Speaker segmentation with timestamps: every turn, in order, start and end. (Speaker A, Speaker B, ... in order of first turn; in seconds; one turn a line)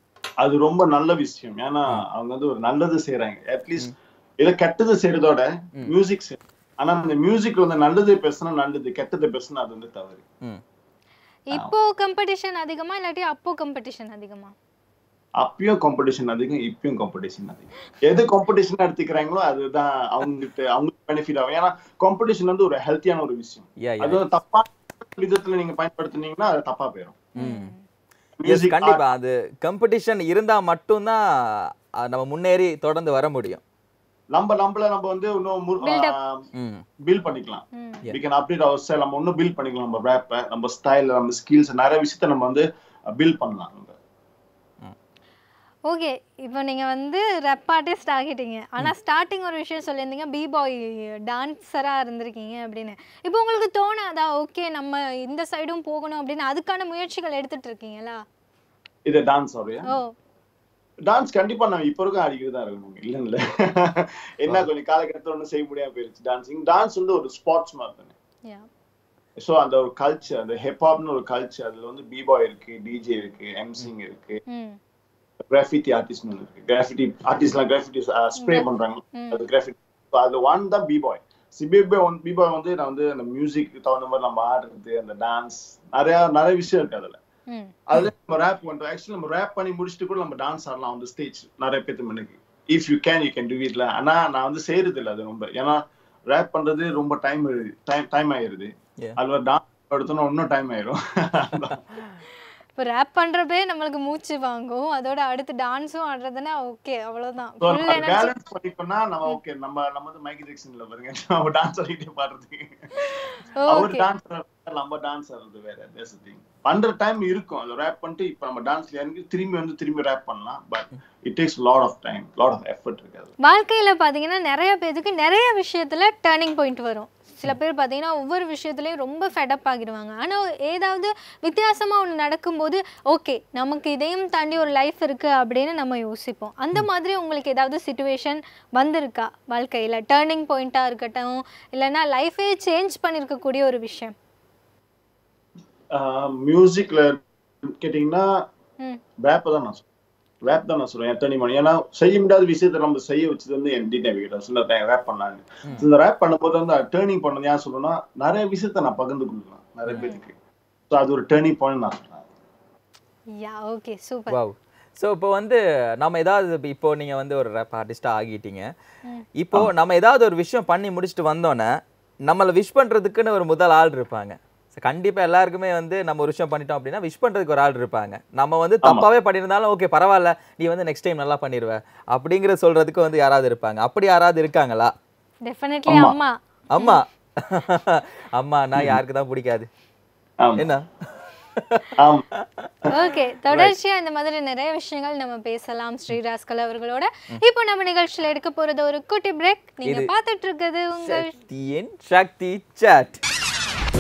Speaker A: 0.4-10.2
Speaker B: 11.5-14.5
Speaker A: 15.4-27.2
Speaker C: 23.8-24.2
Speaker C: 27.4-27.7
Speaker B: 27.4-27.8
Speaker A: 28.4-29.0
Speaker C: 28.4-31.2
Speaker C: 32.0-33.6
Speaker A: 34.3-36.5
Speaker B: 35.8-36.1
Speaker C: 36.5-36.8
Speaker A: 37.1-44.0
Speaker B: 37.8-38.0
Speaker B: 45.9-58.2
Speaker A: 59.1-59.9
Speaker A: 61.1-68.1
Speaker A: 69.4-74.4
Speaker B: 74.5-74.8
Speaker A: 75.5-87.2
Speaker B: 78.4-79.4
Speaker A: 87.9-101.8
Speaker B: 102.8-108.3
Speaker A: 107.6-113.1
Speaker B: 113.6-114.0
Speaker A: 113.7-123.3
Speaker B: 123.5-144.1
Speaker A: 145.9-148.3
Speaker A: 149.2-149.8
Speaker A: 150.5-160.3
Speaker C: 159.9-160.1
Speaker A: 160.9-162.3
Speaker B: 163.4-164.4
Speaker C: 164.3-168.7
Speaker C: 169.4-171.7
Speaker C: 172.3-184.9
Speaker B: 185.4-187.0
Speaker A: 185.9-186.2
Speaker C: 186.7-189.7
Speaker C: 190.6-190.8
Speaker C: 191.6-191.9
Speaker A: 192.0-192.2
Speaker B: 192.9-201.4
Speaker C: 199.8-200.1
Speaker C: 201.0-203.2